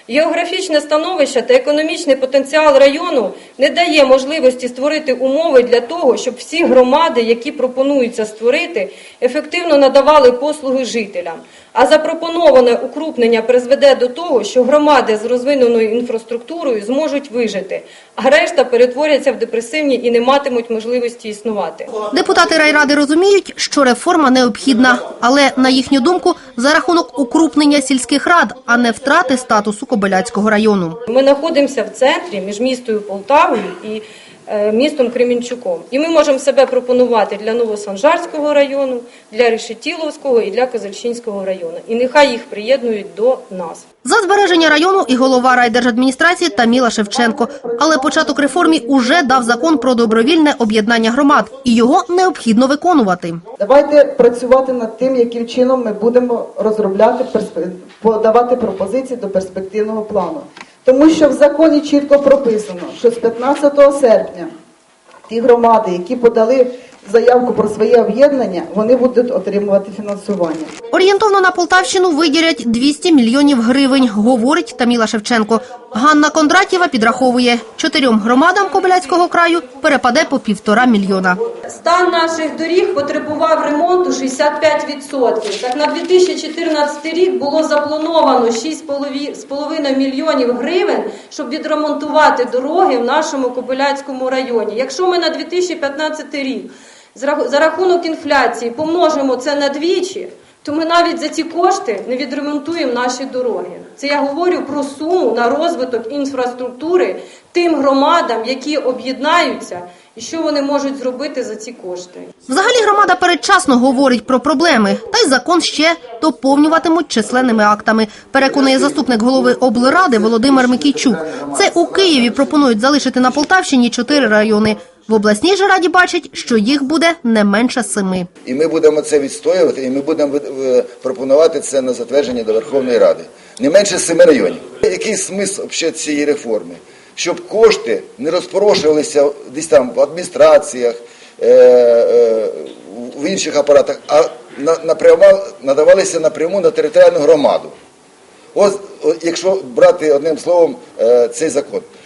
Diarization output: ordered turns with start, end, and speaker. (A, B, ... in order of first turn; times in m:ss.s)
0:00.1-0:21.9 A
0:22.1-0:31.0 B
0:31.1-0:43.8 A
0:44.0-0:53.4 B
0:47.3-0:50.3 C
0:53.6-1:04.5 C
1:05.3-1:10.7 C
1:10.9-1:21.4 B
1:21.7-1:52.3 A
1:52.5-2:08.3 B
2:00.3-2:02.5 D
2:08.4-2:27.7 D
2:28.5-2:31.9 D